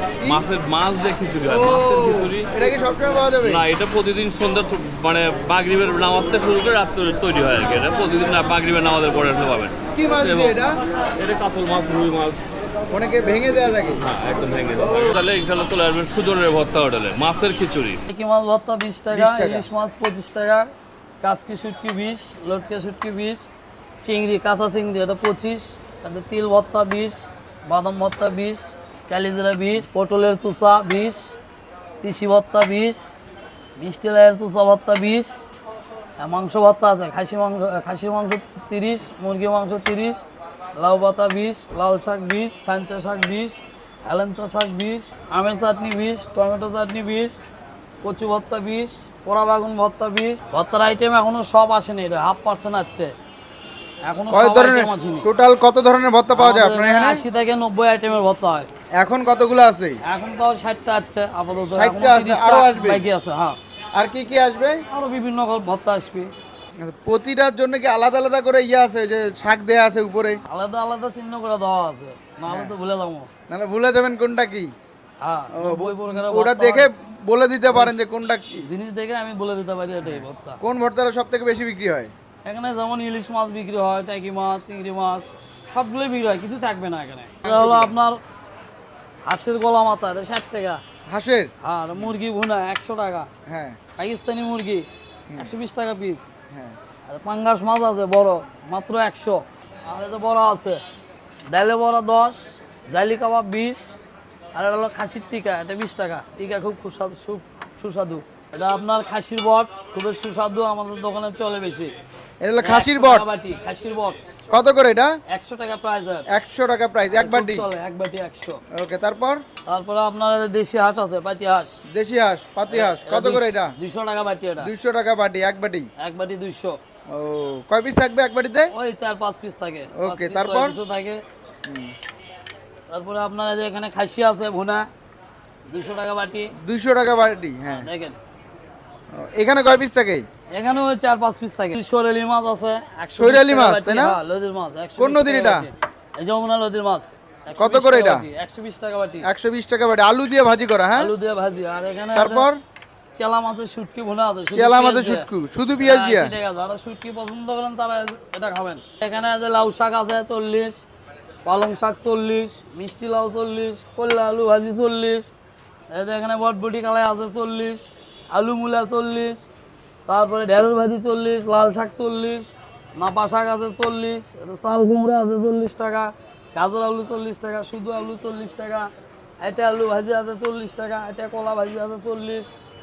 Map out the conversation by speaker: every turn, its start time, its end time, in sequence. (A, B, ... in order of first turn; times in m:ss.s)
0:00.2-0:02.5 A
0:01.5-0:03.7 B
0:03.4-0:10.6 A
0:09.9-0:10.8 B
0:11.2-0:12.4 A
0:12.9-0:14.0 B
0:14.0-0:18.0 A
0:18.1-0:20.7 C
0:19.1-0:19.7 B
0:21.2-0:23.4 C
0:24.0-0:31.3 C
0:32.0-0:33.1 C
0:33.8-0:35.4 C
0:36.2-0:40.2 C
0:40.8-0:47.4 C
0:48.0-0:53.1 C
0:54.1-0:55.3 C
0:54.3-0:57.2 B
0:56.3-0:58.7 C
0:59.0-1:00.0 B
1:00.0-1:03.6 C
1:01.6-1:03.1 B
1:03.9-1:04.8 B
1:04.9-1:06.3 C
1:06.8-1:10.4 B
1:10.5-1:13.3 C
1:12.5-1:12.7 B
1:13.5-1:14.7 B
1:15.2-1:16.9 C
1:15.5-1:18.7 B
1:17.7-1:18.1 C
1:18.6-1:20.6 C
1:20.0-1:22.1 B
1:22.4-1:28.2 C
1:27.4-1:27.9 B
1:29.3-1:30.8 C
1:31.1-1:32.1 B
1:31.6-1:33.3 C
1:33.5-1:33.8 B
1:34.0-1:36.3 C
1:37.1-1:40.8 C
1:41.5-1:43.9 C
1:44.6-1:51.9 C
1:52.4-1:53.3 B
1:52.6-1:54.2 C
1:54.5-1:55.1 B
1:55.3-1:56.3 C
1:56.3-1:57.7 B
1:57.1-1:58.6 C
1:58.7-1:59.4 B
1:59.7-2:01.8 C
2:01.9-2:03.7 B
2:02.7-2:04.7 C
2:04.6-2:05.9 B
2:06.0-2:06.8 C
2:07.1-2:08.7 B
2:08.7-2:11.2 C
2:09.9-2:10.8 B
2:11.7-2:11.9 B
2:12.9-2:14.9 C
2:15.7-2:16.5 C
2:16.6-2:17.9 B
2:17.7-2:18.2 C
2:19.1-2:20.3 B
2:20.5-2:29.3 C
2:23.2-2:24.2 B
2:25.0-2:25.7 B
2:27.5-2:28.3 B
2:29.2-2:31.1 B
2:31.0-2:32.5 C
2:32.2-2:32.6 B
2:33.2-2:35.3 C
2:34.5-2:36.4 B
2:35.8-2:40.8 C
2:41.4-2:45.3 C
2:45.9-2:49.4 C
2:50.1-2:58.9 C
2:59.4-3:02.5 C